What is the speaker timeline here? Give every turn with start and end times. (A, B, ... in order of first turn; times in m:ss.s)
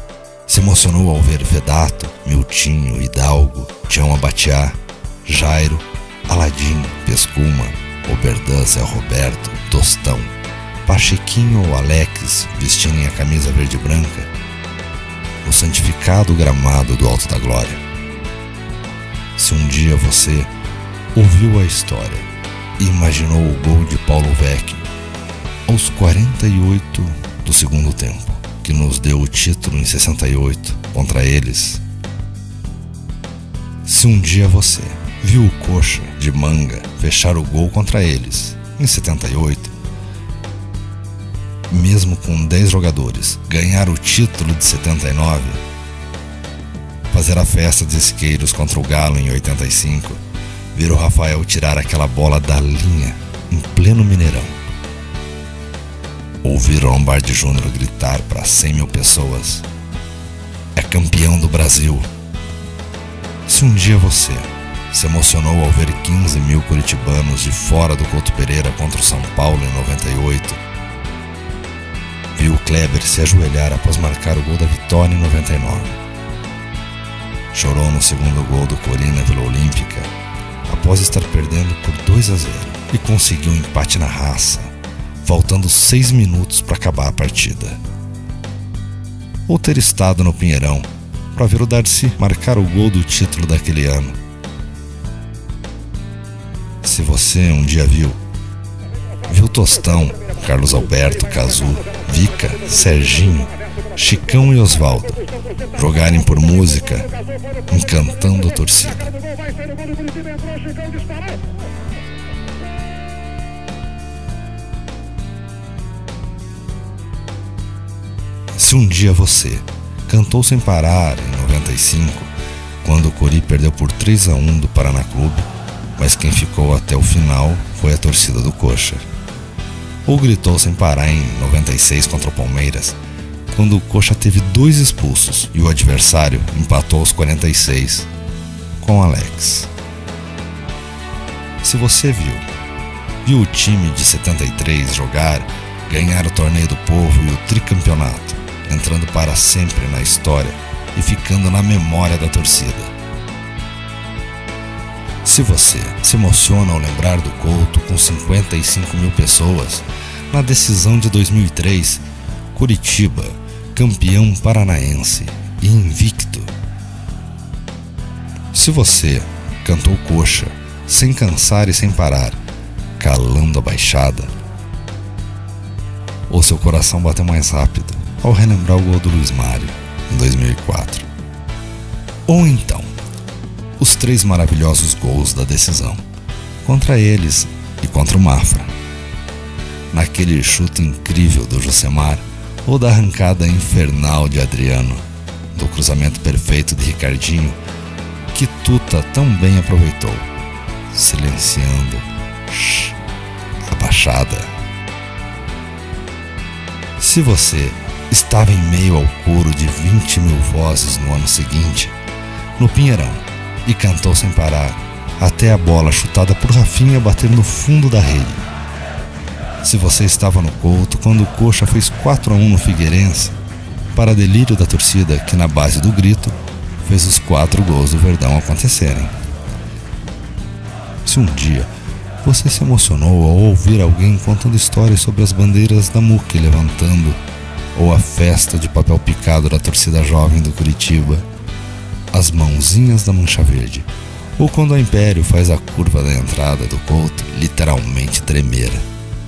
0:00.5-0:10.3 A
0:10.8-0:14.3 A
0:15.4-0:17.8 A
0:19.4-0:20.5 A
0:21.1-0:24.9 A
0:25.7-0:31.8 A
0:33.8-0:39.7 A
0:41.7-0:45.6 A
0:47.1-0:50.2 A
0:50.7-0:54.6 A
0:56.4-0:59.7 A
1:00.8-1:02.1 A
1:03.5-1:10.6 A
1:12.4-1:16.0 A
1:17.5-1:20.1 A
1:20.7-1:27.8 A
1:29.5-1:34.2 A
1:36.8-1:38.2 A
1:39.3-1:45.2 A
1:45.7-1:47.1 A
1:47.7-1:49.1 A
1:58.6-2:09.0 A
2:10.0-2:13.0 A
2:13.5-2:18.1 A
2:18.8-2:19.7 A
2:21.6-2:22.5 A
2:23.2-2:32.9 A
2:35.2-2:46.5 A
2:48.5-2:52.4 A
2:53.0-2:54.3 A
2:56.3-3:01.1 A
3:02.3-3:02.9 A
3:03.8-3:06.0 A
3:06.6-3:08.7 A
3:09.9-3:17.6 A
3:18.3-3:20.3 A
3:20.9-3:23.0 A
3:23.6-3:24.5 A
3:27.0-3:32.0 A
3:32.6-3:38.4 A
3:39.6-3:43.4 A
3:43.9-3:49.1 A
3:51.0-3:51.7 A
3:52.2-3:57.2 A
3:57.7-4:01.3 A
4:02.1-4:08.8 A